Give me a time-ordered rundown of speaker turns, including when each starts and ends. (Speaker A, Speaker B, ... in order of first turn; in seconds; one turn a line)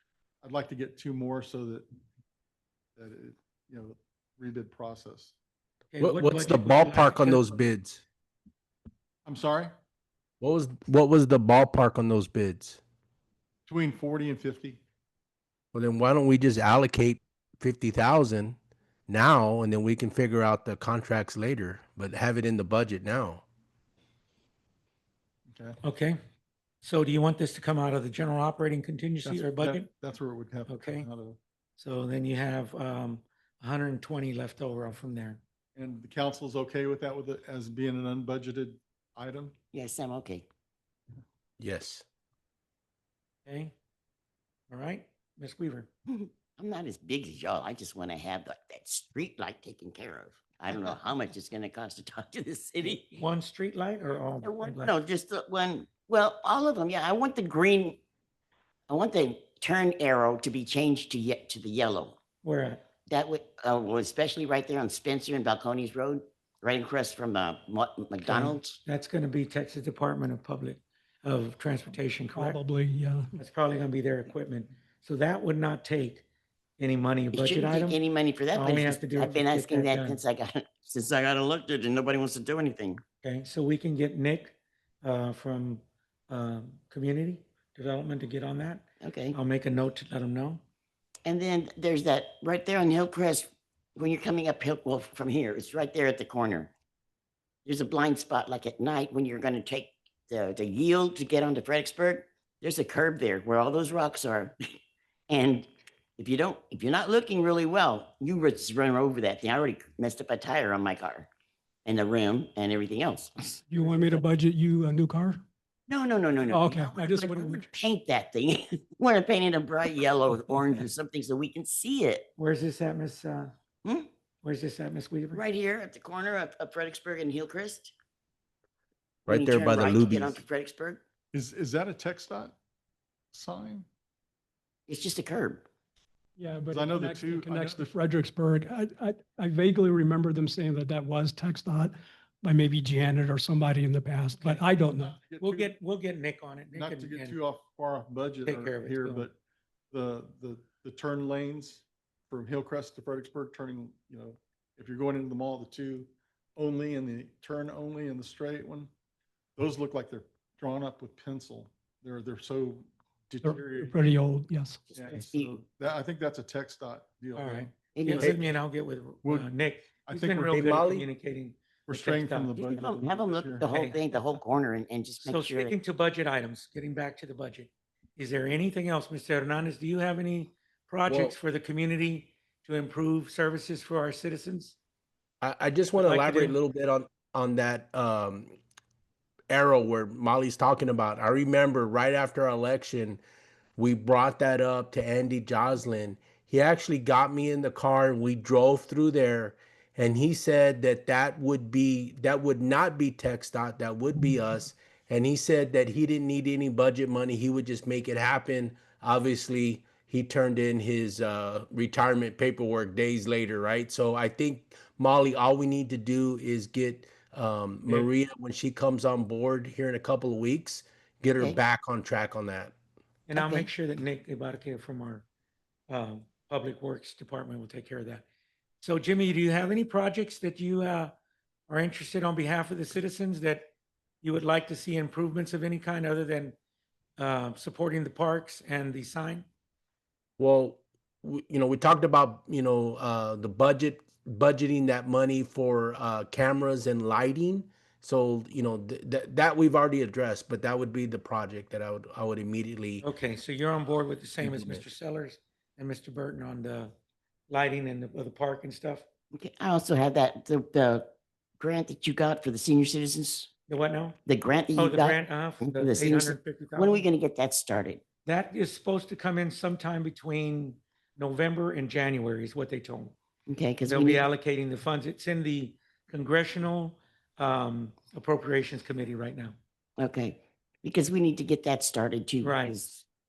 Speaker A: 0.4-1.9
Speaker A: 3.0-5.3
Speaker B: 5.9-7.5
Speaker C: 6.0-8.0
Speaker A: 9.2-9.7
Speaker C: 10.4-12.8
Speaker A: 13.7-14.8
Speaker C: 15.7-18.6
Speaker C: 19.1-23.4
Speaker A: 25.5-25.8
Speaker B: 25.8-26.2
Speaker B: 26.8-29.9
Speaker A: 29.2-31.4
Speaker B: 30.7-31.1
Speaker B: 31.8-35.4
Speaker A: 35.8-39.5
Speaker D: 39.7-40.5
Speaker C: 41.6-42.0
Speaker B: 43.5-43.7
Speaker B: 44.7-45.9
Speaker D: 46.1-53.2
Speaker B: 52.8-54.9
Speaker D: 54.4-58.0
Speaker D: 58.9-62.2
Speaker B: 62.4-62.8
Speaker D: 63.1-68.8
Speaker B: 68.2-72.6
Speaker E: 72.3-73.3
Speaker B: 73.3-76.2
Speaker B: 76.8-78.0
Speaker D: 77.3-83.0
Speaker B: 78.5-80.2
Speaker B: 83.2-90.6
Speaker D: 89.0-89.4
Speaker D: 91.2-96.7
Speaker D: 97.7-104.5
Speaker D: 105.3-111.3
Speaker D: 111.8-113.6
Speaker E: 113.7-115.4
Speaker B: 113.8-114.2
Speaker D: 115.9-122.3
Speaker E: 116.5-117.7
Speaker B: 122.4-123.5
Speaker D: 123.8-124.1
Speaker B: 124.4-125.4
Speaker D: 125.3-127.9
Speaker C: 129.3-130.4
Speaker D: 129.3-131.0
Speaker A: 131.3-132.5
Speaker A: 133.3-133.9
Speaker D: 134.9-135.6
Speaker E: 136.4-145.2
Speaker A: 136.7-137.9
Speaker A: 144.8-145.7
Speaker B: 145.4-147.4
Speaker A: 146.7-149.3
Speaker B: 148.4-149.2
Speaker A: 149.9-158.9
Speaker A: 159.6-164.1
Speaker E: 163.4-164.8
Speaker A: 164.9-168.3
Speaker D: 165.1-165.6
Speaker B: 167.3-172.5
Speaker D: 167.9-168.3
Speaker A: 169.2-169.5
Speaker A: 170.0-170.5
Speaker C: 170.4-171.1
Speaker A: 171.9-173.7
Speaker D: 172.5-175.7
Speaker B: 173.6-174.0
Speaker B: 175.2-184.8
Speaker C: 181.1-181.3
Speaker C: 185.4-188.5
Speaker B: 186.0-186.6
Speaker C: 189.5-193.2
Speaker C: 193.8-222.7
Speaker B: 223.3-225.2
Speaker D: 223.3-223.7
Speaker B: 225.9-228.2
Speaker B: 228.8-231.1
Speaker B: 231.7-233.7
Speaker B: 234.2-236.5
Speaker B: 237.2-239.5
Speaker C: 240.4-253.0
Speaker B: 253.0-256.9
Speaker C: 254.4-254.8
Speaker B: 257.5-259.1
Speaker D: 259.3-263.5
Speaker B: 263.7-264.2
Speaker D: 264.3-268.0
Speaker B: 264.7-267.1
Speaker B: 268.2-273.1
Speaker D: 273.5-274.3
Speaker B: 273.8-279.6
Speaker D: 280.0-283.0
Speaker B: 282.4-282.9